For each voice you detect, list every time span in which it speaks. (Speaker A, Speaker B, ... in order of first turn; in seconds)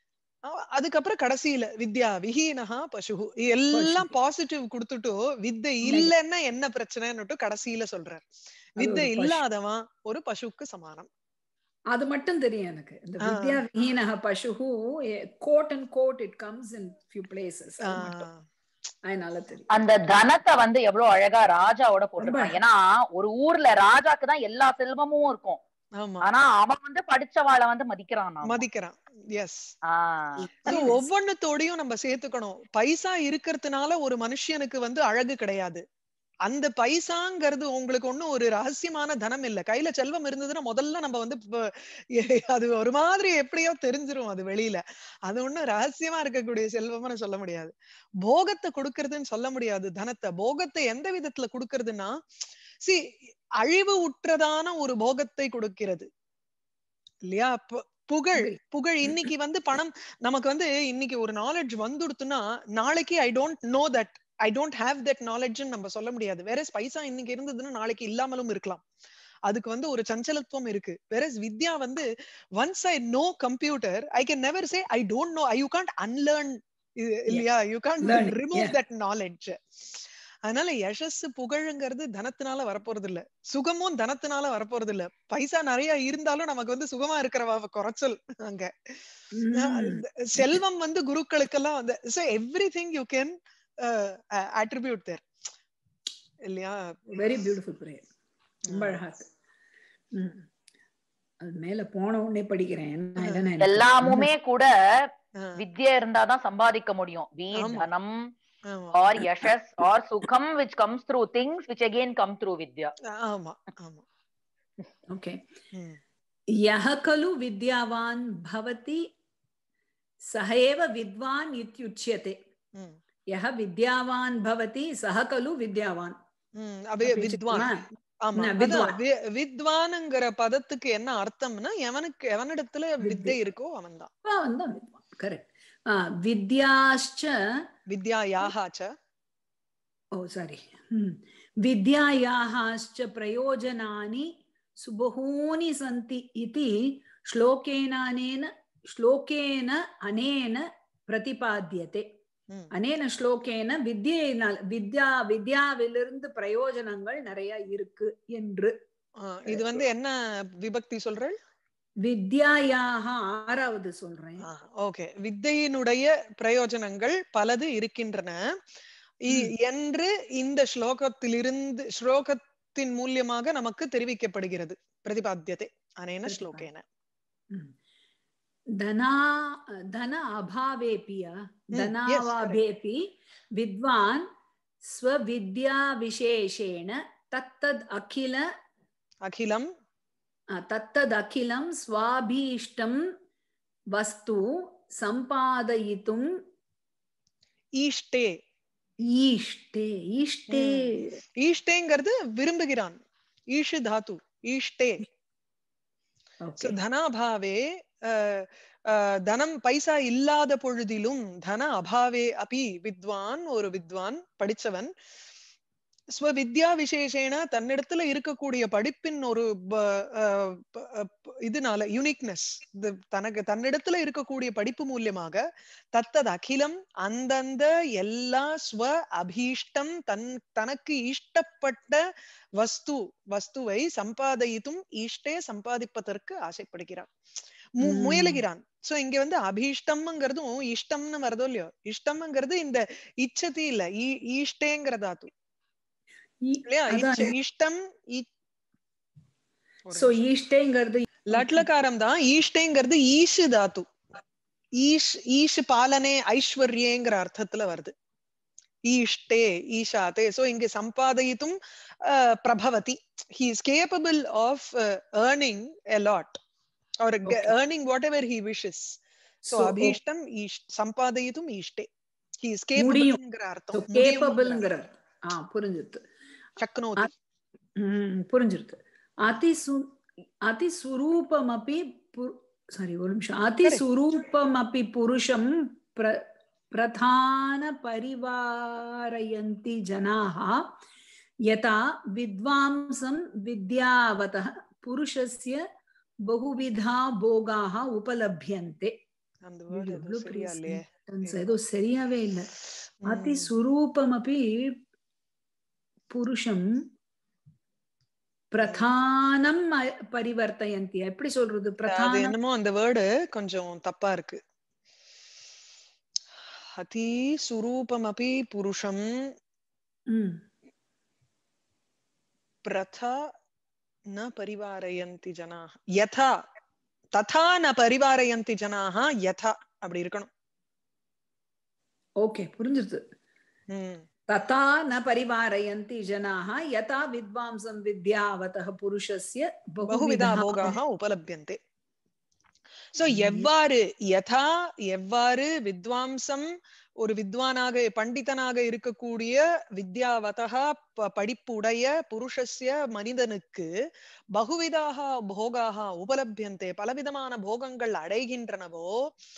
Speaker A: 0.5-8.3, 8.8-11.1, 13.2-13.6, 17.8-18.4, 26.0-26.2, 28.4-29.6, 30.7-35.8, 36.5-52.2, 53.6-56.1, 57.3-68.8, 69.5-72.1, 72.6-89.0, 89.5-95.2, 96.5-97.2, 98.7-99.0, 105.4-105.6, 107.5-107.9, 108.7-109.5, 113.1-114.0, 115.7-116.0, 126.6-127.7, 128.2-134.1, 137.9-138.9, 159.2-161.4, 164.4-168.4, 169.3-176.8, 181.8-182.6, 189.2-189.7, 197.8-198.3, 200.5-203.0, 203.5-205.0, 206.6-214.9, 216.2-225.4, 225.9-232.0, 232.6-237.1, 237.8-245.3, 246.7-248.3, 249.9-250.2, 251.3-253.9, 254.8-257.9, 258.9-266.4, 267.0-269.0, 269.5-271.9, 272.4-274.6, 276.6-277.1, 299.4-301.5, 303.1-303.5, 308.6-308.9, 311.9-314.4, 316.8-319.1, 322.6-323.3, 324.1-326.3, 327.1-330.3, 333.7-334.1, 339.9-341.6, 342.9-346.5, 347.0-353.7, 354.4-359.1
Speaker B: 3.7-4.2, 5.8-6.1, 8.8-9.4, 11.9-18.3, 19.1-19.7, 22.2-22.6, 30.7-31.1, 58.4-59.3, 78.0-78.8, 89.3-90.6, 97.1-98.0, 98.7-99.3, 100.1-100.5, 101.4-104.3, 115.1-115.4, 116.5-119.1, 120.3-122.4, 123.3-126.2, 127.0-129.0, 133.0-133.4, 134.2-137.4, 140.2-152.1, 152.7-158.7, 159.5-159.8, 162.0-164.5, 176.3-176.7, 178.8-183.0, 183.6-184.3, 184.9-188.5, 190.5-193.0, 193.9-196.3, 199.1-201.2, 206.4-206.8, 237.8-238.4, 246.4-247.3, 249.9-251.7, 267.3-267.6, 269.4-270.0, 272.8-273.2, 273.7-276.0, 277.8-290.6, 291.5-295.6, 296.3-298.9, 299.7-302.5, 303.1-304.7, 306.1-306.7, 308.5-312.3, 320.1-320.4, 332.2-333.0, 334.3-340.8, 343.1-343.5
Speaker C: 19.7-25.6, 26.2-28.6, 29.9-30.5, 103.6-108.2, 108.9-112.9